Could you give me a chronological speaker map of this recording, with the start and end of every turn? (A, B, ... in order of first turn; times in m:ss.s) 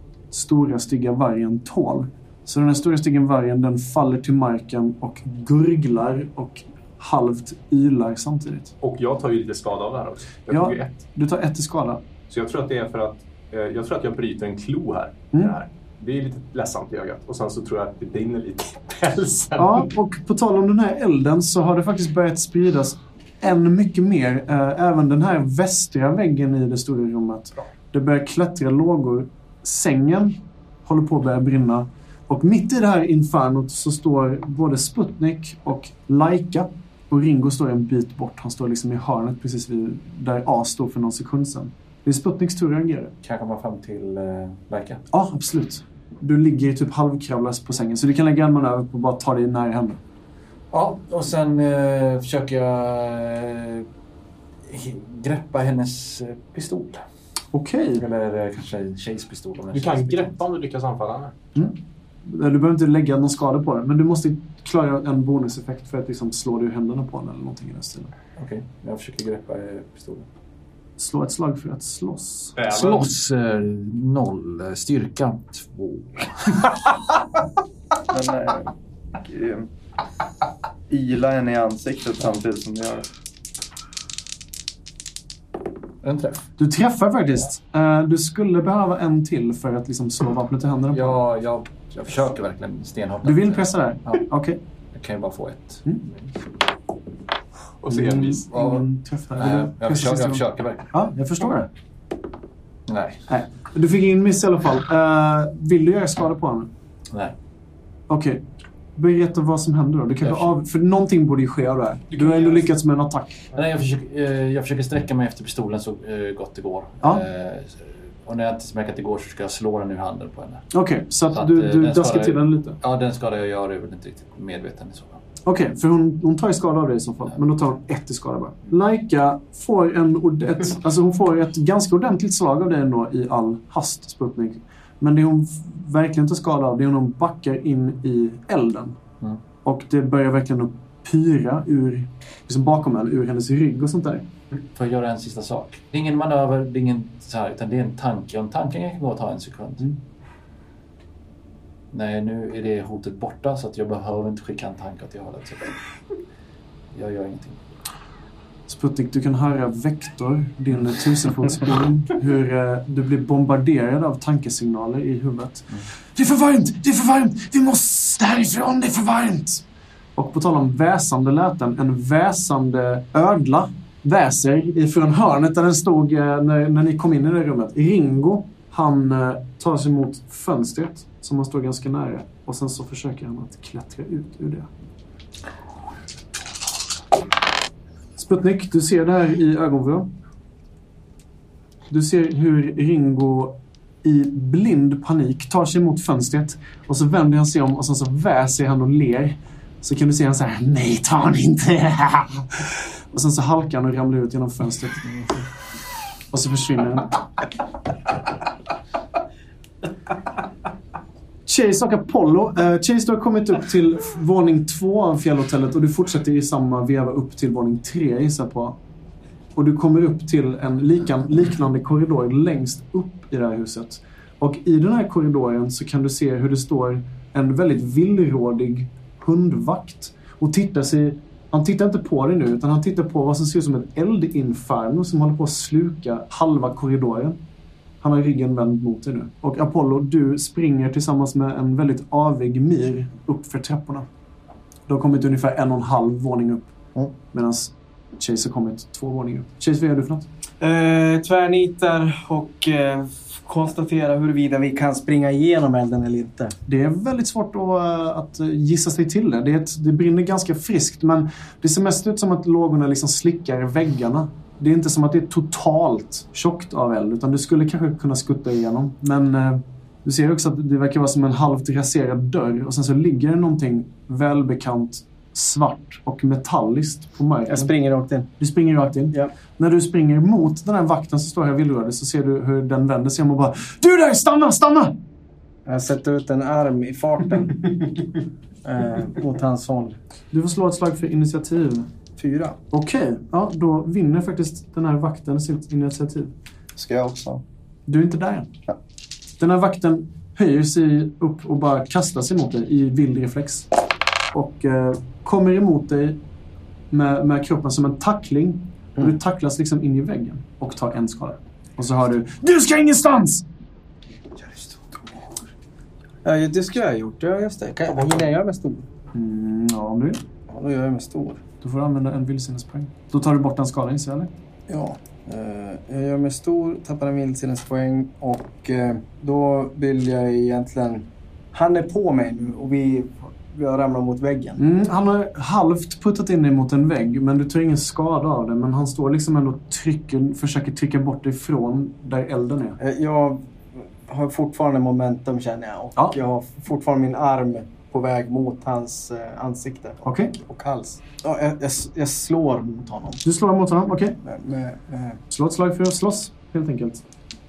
0:00.3-0:08.7 A
0:08.8-0:11.0 B
0:10.5-0:12.0 A
0:12.3-0:19.9 B
0:19.6-0:43.1 A
0:43.2-0:45.0 C
0:45.1-0:50.0 A
0:50.7-0:53.9 C
0:54.7-0:57.0 C
0:57.5-0:58.0 A
0:58.0-1:00.4 C
0:59.7-1:01.4 B
1:01.6-1:08.1 A
1:08.4-1:10.3 C
1:11.0-1:12.6 A
1:12.6-1:13.1 B
1:12.6-1:16.8 C
1:18.1-1:19.7 D
1:20.9-1:23.1 D
1:26.0-1:26.4 C
1:26.6-1:31.2 A
1:30.9-1:34.2 C
1:33.2-1:34.6 A
1:34.9-1:36.4 C
1:37.8-1:38.4 B
1:37.9-1:41.7 A
1:38.5-1:38.9 C
1:39.4-1:40.9 C
1:42.9-1:43.2 C
1:43.3-1:46.7 A
1:48.1-1:48.4 A
1:49.0-1:53.4 A
1:50.2-1:50.5 C
1:52.1-1:52.7 B
1:53.5-2:00.7 C
2:00.7-2:02.8 A
2:01.3-2:05.2 C
2:05.5-2:19.0 A
2:19.6-2:24.3 A
2:24.7-2:29.9 C
2:31.9-2:35.8 C
2:36.9-2:37.6 C
2:38.7-2:49.6 A
2:50.2-3:04.7 A
3:08.2-3:10.1 A
3:11.9-3:25.2 A
3:26.3-3:27.2 A
3:31.5-3:38.8 A
3:39.6-3:57.4 A
3:58.0-4:04.1 A
4:04.9-4:10.3 A
4:10.6-4:16.6 E
4:16.6-4:37.7 A
4:37.5-4:38.3 E
4:38.4-4:44.9 A
4:45.6-4:47.9 E
4:48.6-4:50.0 E
4:50.3-4:51.9 A
4:52.2-4:52.6 E
4:52.7-4:56.3 A
4:56.8-4:57.4 D
4:57.9-4:58.5 A
4:59.4-5:03.7 A
5:04.3-5:06.2 A
5:06.9-5:13.4 A
5:16.2-5:18.8 E
5:17.9-5:18.2 B
5:19.1-5:20.2 A
5:20.5-5:21.4 E
5:21.6-5:24.3 A
5:24.7-5:34.6 E
5:34.6-5:42.8 A
5:42.8-5:53.2 E
5:50.0-5:50.4 A
5:53.2-5:54.2 A
5:54.2-5:55.2 E
5:55.3-5:57.0 A